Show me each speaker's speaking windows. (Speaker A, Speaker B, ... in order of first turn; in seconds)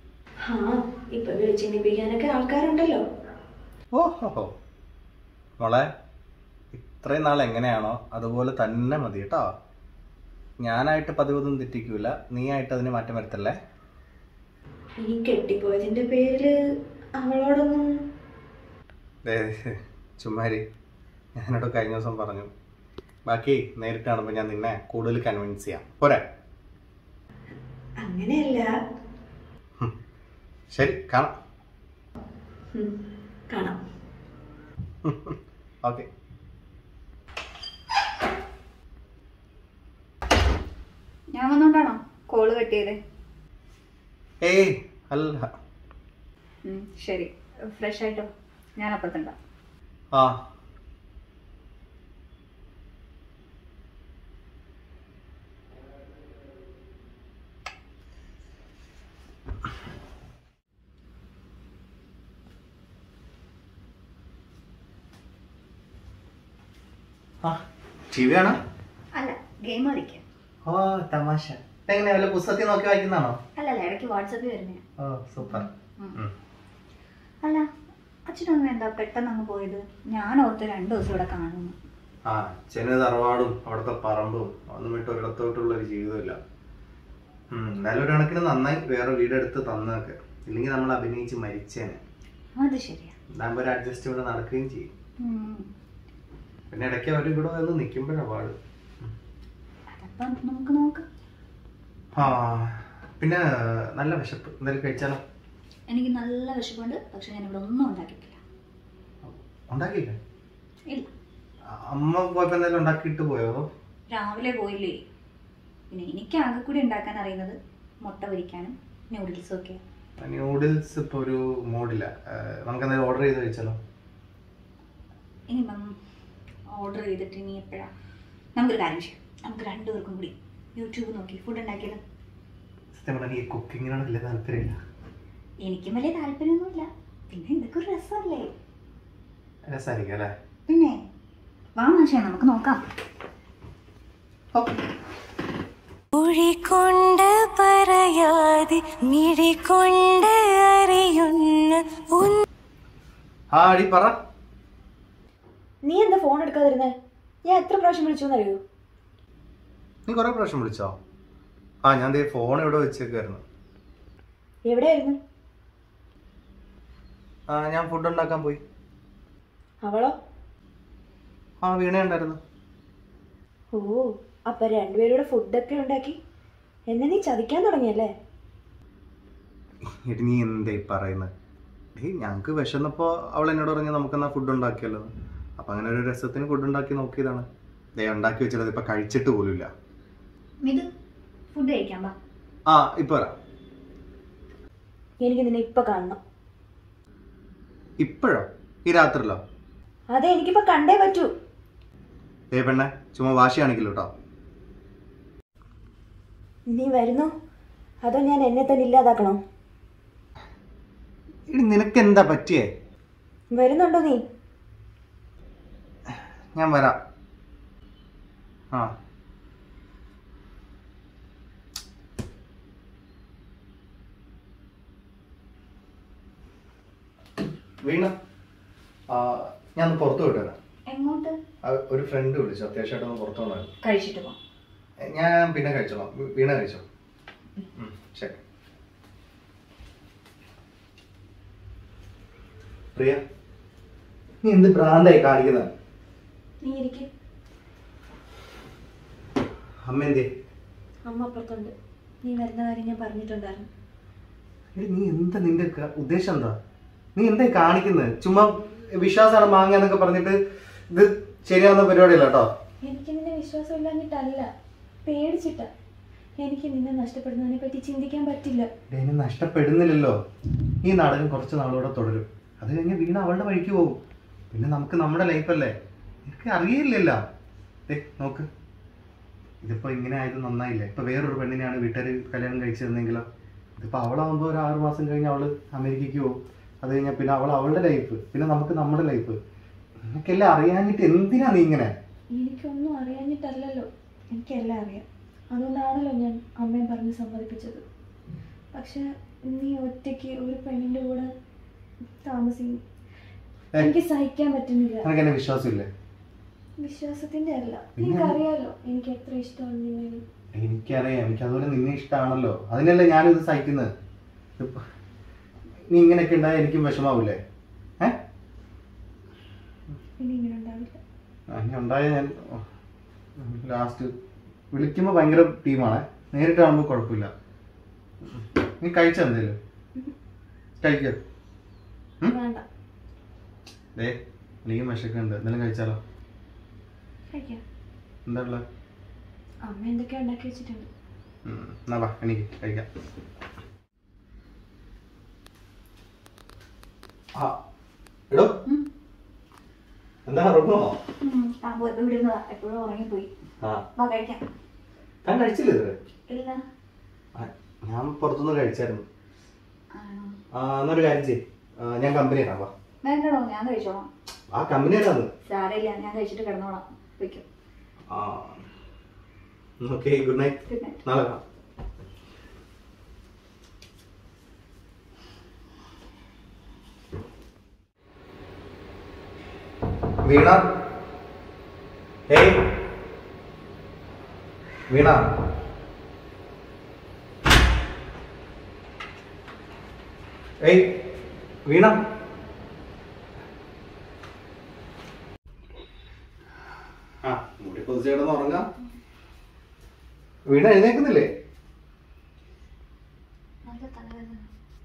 Speaker A: 0.4-3.0, 15.0-16.5, 17.2-17.9, 28.0-28.7, 32.7-33.8, 146.1-152.4, 155.8-158.6, 164.7-165.2, 169.8-170.1, 173.7-176.2, 176.9-178.1, 195.2-196.2, 200.1-201.3, 206.7-207.3, 208.0-209.4, 213.5-214.2, 246.6-247.1, 251.1-253.7, 262.8-264.5, 265.0-265.7, 266.4-268.7, 292.3-297.8, 298.7-301.3, 302.2-302.8, 303.8-305.1, 306.8-310.2, 320.2-321.0, 332.2-332.6, 337.3-337.6, 339.6-340.9
Speaker B: 3.9-4.5, 5.6-5.9, 6.7-9.5, 10.6-13.5, 19.2-20.6, 21.4-22.5, 23.3-26.2, 30.7-31.3, 35.0-36.1, 44.4-45.5, 68.1-68.6, 70.7-73.4, 75.0-76.3, 82.3-86.4, 87.5-92.0, 93.3-94.9, 96.7-99.1, 102.1-105.2, 109.2-110.2, 111.7-113.7, 120.2-123.8, 132.9-134.8, 139.7-140.3, 153.5-154.2, 160.1-160.9, 161.8-163.4, 167.5-168.6, 171.6-172.4, 179.9-181.3, 182.0-187.4, 188.0-189.7, 192.7-193.3, 198.0-199.4, 202.5-204.1, 211.5-212.7, 216.5-217.0, 227.8-228.1, 229.1-230.6, 231.6-233.7, 235.0-236.8, 237.8-238.4, 242.9-243.2, 244.4-245.7, 249.8-250.3, 254.8-256.6, 257.1-260.4, 260.9-262.5, 268.9-270.2, 270.8-274.0, 274.5-275.7, 276.2-277.2, 277.9-278.5, 279.6-283.3, 283.8-289.4, 290.1-291.9, 305.0-305.9, 308.0-308.4, 310.5-313.9, 314.6-314.8, 315.9-317.4, 321.5-322.6, 323.4-324.1, 324.7-327.3, 328.2-329.6, 330.8-331.2, 333.9-336.0, 338.3-338.6, 341.4-342.9, 348.3-348.5, 350.2-350.9, 355.2-355.9, 357.4-359.0, 360.5-362.7, 364.5-365.3, 368.1-368.6, 369.8-371.4, 380.2-380.6, 382.3-382.7, 384.9-385.3, 390.6-391.0, 391.6-392.0, 397.2-398.7, 400.5-401.3
Speaker C: 41.3-43.0, 46.6-49.4, 69.2-70.2, 73.6-74.8, 75.4-76.2, 78.3-81.8, 92.6-93.1, 95.2-95.7, 100.0-101.0, 105.9-108.4, 114.1-115.0, 115.9-119.8, 125.5-125.9, 126.7-127.9, 128.6-132.0, 135.6-138.5, 140.7-141.0, 141.8-142.8, 190.6-190.9, 191.5-192.1, 230.9-231.4, 233.8-234.4, 351.2-353.3, 354.0-354.4, 356.3-356.6, 359.9-360.4, 363.0-364.1, 365.5-367.4, 370.7-371.0, 403.6-404.5